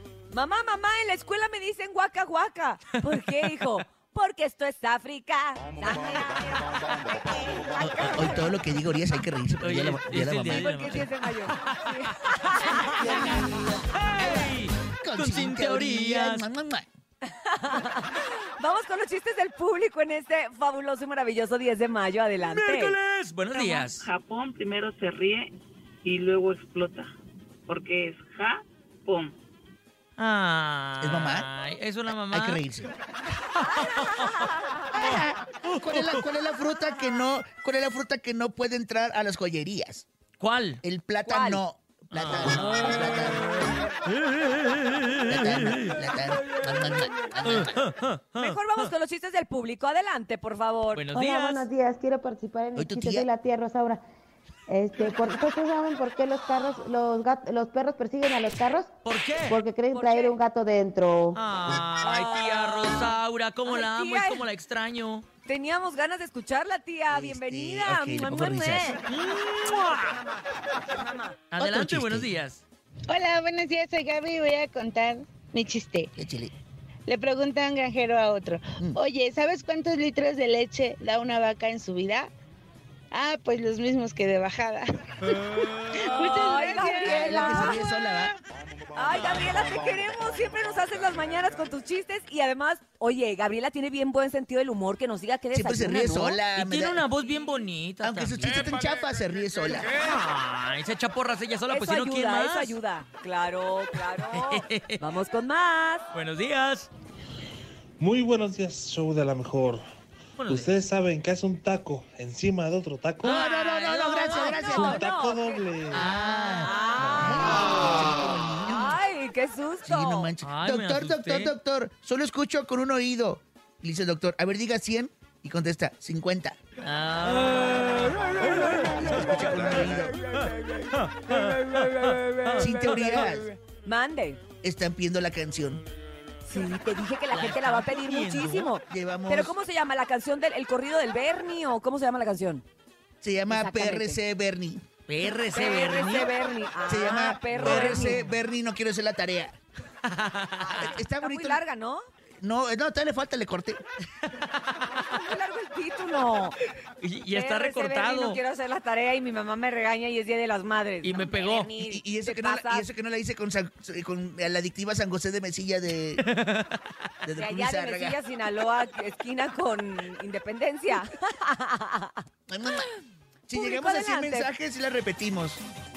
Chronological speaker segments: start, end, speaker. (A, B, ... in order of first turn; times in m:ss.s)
0:00.3-0:08.5 A
0:07.8-0:10.7 B
0:09.6-0:13.2 C
0:10.5-0:13.6 A
0:12.9-0:13.8 B
0:13.9-0:16.4 C
0:15.0-0:16.9 B
0:17.2-0:23.0 A
0:22.4-0:24.1 C
0:23.6-0:25.5 D
0:26.0-0:27.1 D
0:27.7-0:29.3 D
0:30.2-0:32.6 C
0:31.0-0:31.5 B
0:32.3-0:32.9 B
0:33.6-0:34.4 C
0:33.7-0:34.8 A
0:34.9-0:40.1 B
0:35.0-0:36.2 C
0:40.4-0:40.8 C
0:40.8-0:43.8 B
0:41.2-0:41.6 A
0:42.1-0:43.4 C
0:44.1-0:45.9 C
0:45.3-0:47.8 B
0:47.4-0:48.9 C
0:48.4-0:51.1 A
0:50.9-0:51.7 C
0:51.1-0:54.0 E
0:52.8-0:53.3 B
0:54.7-0:58.9 E
0:59.0-0:59.6 C
0:59.5-1:01.4 E
0:59.9-1:00.4 A
1:01.3-1:05.2 C
1:02.0-1:03.0 A
1:03.6-1:04.4 A
1:05.4-1:09.0 A
1:07.1-1:09.0 B
1:09.1-1:10.2 C
1:09.7-1:11.4 A
1:11.5-1:12.6 C
1:11.6-1:12.3 B
1:13.1-1:16.1 F
1:16.2-1:16.5 B
1:17.0-1:22.3 F
1:23.1-1:24.9 F
1:25.3-1:26.2 C
1:25.9-1:27.8 F
1:26.2-1:27.8 A
1:26.9-1:28.4 B
1:28.9-1:36.4 A
1:35.5-1:37.0 B
1:36.5-1:38.6 C
1:38.0-1:39.9 B
1:39.9-1:42.8 C
1:41.7-1:46.1 A
1:44.3-1:45.0 C
1:46.1-1:46.9 C
1:48.0-1:49.8 G
1:50.4-1:50.9 C
1:50.5-1:53.4 G
1:53.2-1:55.0 C
1:53.3-1:55.0 B
1:54.4-1:55.6 A
1:54.6-1:56.1 G
1:55.9-1:59.0 B
1:55.9-1:57.6 C
1:56.6-1:58.0 A
1:58.6-2:00.3 A
1:59.8-2:06.6 B
2:00.4-2:01.5 C
2:06.8-2:09.1 C
2:08.7-2:10.2 B
2:10.3-2:13.0 C
2:12.6-2:13.5 B
2:13.7-2:14.4 A
2:14.6-2:15.8 B
2:16.4-2:22.6 A
2:17.3-2:18.7 C
2:18.9-2:19.5 B
2:23.2-2:24.8 B
2:23.5-2:24.2 A
2:25.1-2:26.3 C
2:25.5-2:28.2 A
2:26.9-2:29.6 B
2:27.5-2:28.3 C
2:30.0-2:30.9 C
2:30.6-2:32.0 A
2:30.7-2:31.6 B
2:32.4-2:33.8 B
2:34.9-2:36.6 A
2:37.0-2:38.4 C
2:37.3-2:42.9 A
2:41.0-2:41.7 C
2:41.8-2:46.2 B
2:46.2-2:46.7 C
2:47.2-2:48.2 B
2:47.4-2:52.8 A
2:52.5-2:52.9 B
2:53.5-2:55.6 B
2:53.5-2:54.5 A